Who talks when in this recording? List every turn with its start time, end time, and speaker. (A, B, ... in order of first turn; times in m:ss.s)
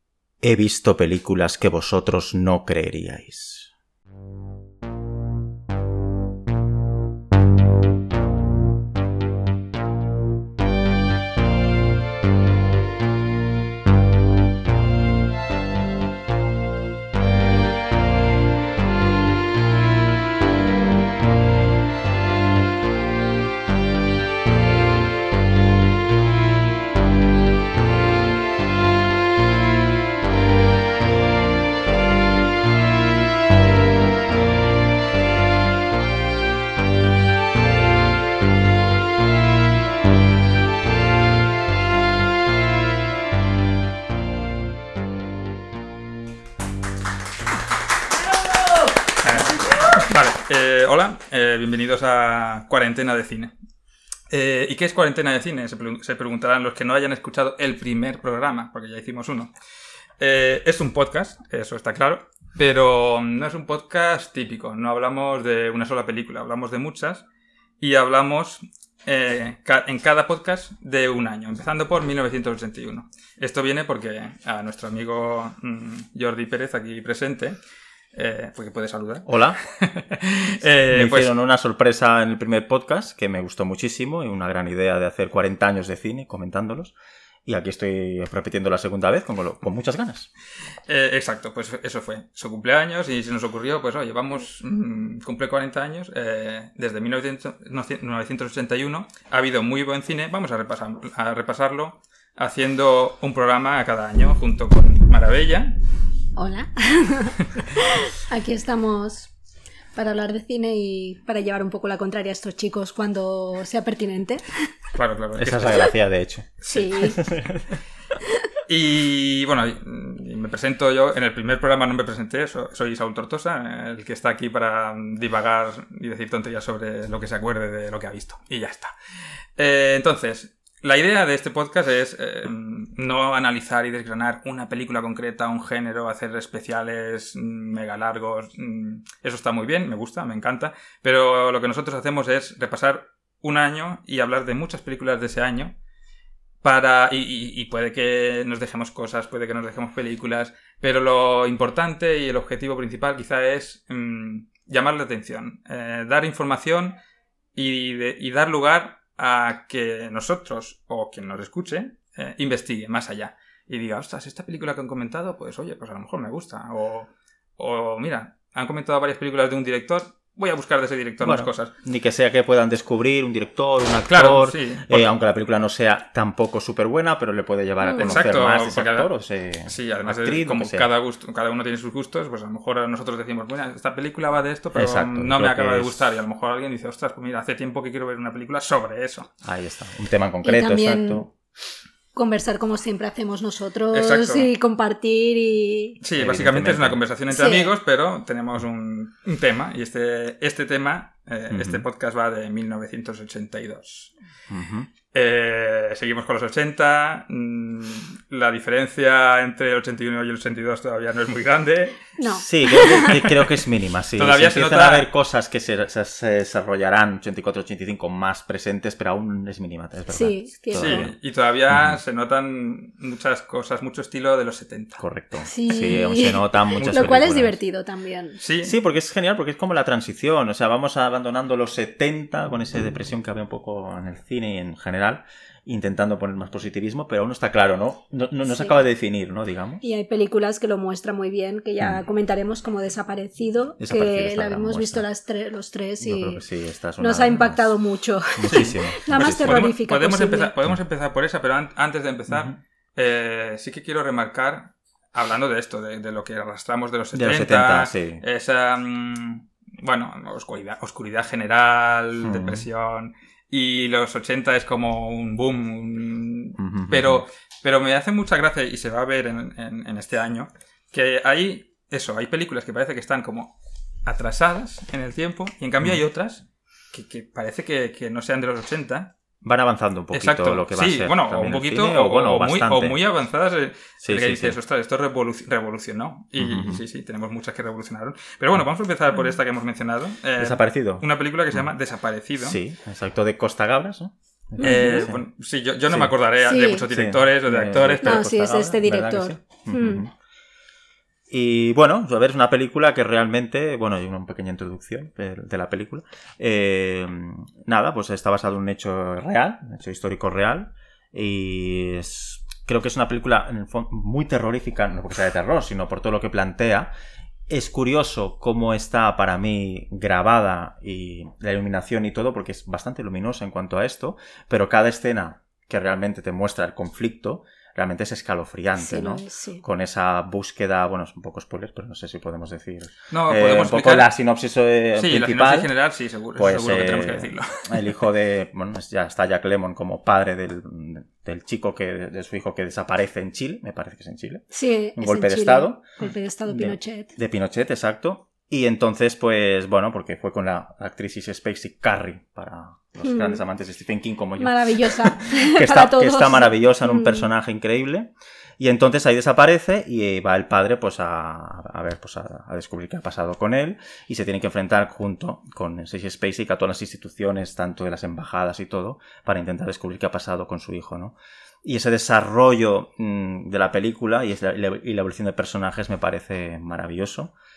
0:00.4-0:03.7 A
0:49.2-0:53.5 B
0:54.3-0:59.5 B
1:00.2-1:07.2 B
1:07.8-1:17.6 B
1:18.1-1:19.3 B
1:19.2-1:19.6 A
1:19.8-1:21.3 B
1:20.9-1:26.9 A
1:27.4-1:30.3 A
1:30.9-1:45.8 B
1:46.4-1:49.3 C
1:50.0-1:54.6 C
1:54.9-1:55.9 B
1:55.3-1:57.7 A
1:56.6-1:56.9 B
1:56.7-1:57.2 C
1:58.7-2:08.9 B
2:09.6-2:25.8 B
2:26.6-2:37.0 B
2:37.6-2:51.7 B
2:51.2-3:00.9 A
2:54.1-2:55.1 B
2:57.8-2:58.2 C
2:58.0-2:59.1 B
2:59.7-3:09.3 B
3:04.8-3:06.1 A
3:09.4-3:11.3 A
3:10.4-3:11.3 C
3:12.1-3:16.0 C
3:13.9-3:14.5 B
3:16.0-3:24.1 B
3:16.2-3:17.0 A
3:17.3-3:17.7 C
3:21.5-3:21.9 A
3:24.5-3:24.9 A
3:25.1-3:32.1 B
3:32.2-3:33.2 C
3:32.4-3:41.1 A
3:32.8-3:33.6 B
3:34.2-3:35.1 B
3:40.1-3:41.1 C
3:40.7-3:45.0 B
3:41.7-3:42.0 A
3:45.0-3:47.6 A
3:45.4-3:48.4 C
3:46.8-3:47.2 B
3:48.4-3:48.8 B
3:48.6-3:59.8 A
3:58.5-3:58.8 C
3:59.8-4:06.4 C
4:03.8-4:05.1 A
4:06.0-4:07.8 A
4:07.0-4:10.5 C
4:08.4-4:09.7 A
4:08.5-4:33.5 B
4:12.3-4:12.6 A
4:17.1-4:18.2 A
4:22.2-4:22.7 A
4:26.6-4:27.2 A
4:34.0-4:39.1 B
4:39.4-4:43.0 A
4:40.1-4:52.6 B
4:44.0-4:44.6 A
4:46.4-4:46.8 A
4:50.4-4:51.7 A
4:52.4-4:55.2 A
4:54.6-4:58.3 B
4:54.6-4:55.1 C
4:56.4-4:56.8 C
4:56.9-5:00.1 A
4:58.0-5:00.0 C
5:01.3-5:16.9 A
5:17.5-5:35.7 A
5:28.8-5:29.6 C
5:33.1-5:34.1 B
5:35.0-5:37.8 B
5:36.4-6:17.3 A
5:44.5-5:47.1 C
5:53.0-5:53.4 C
5:54.4-5:57.3 C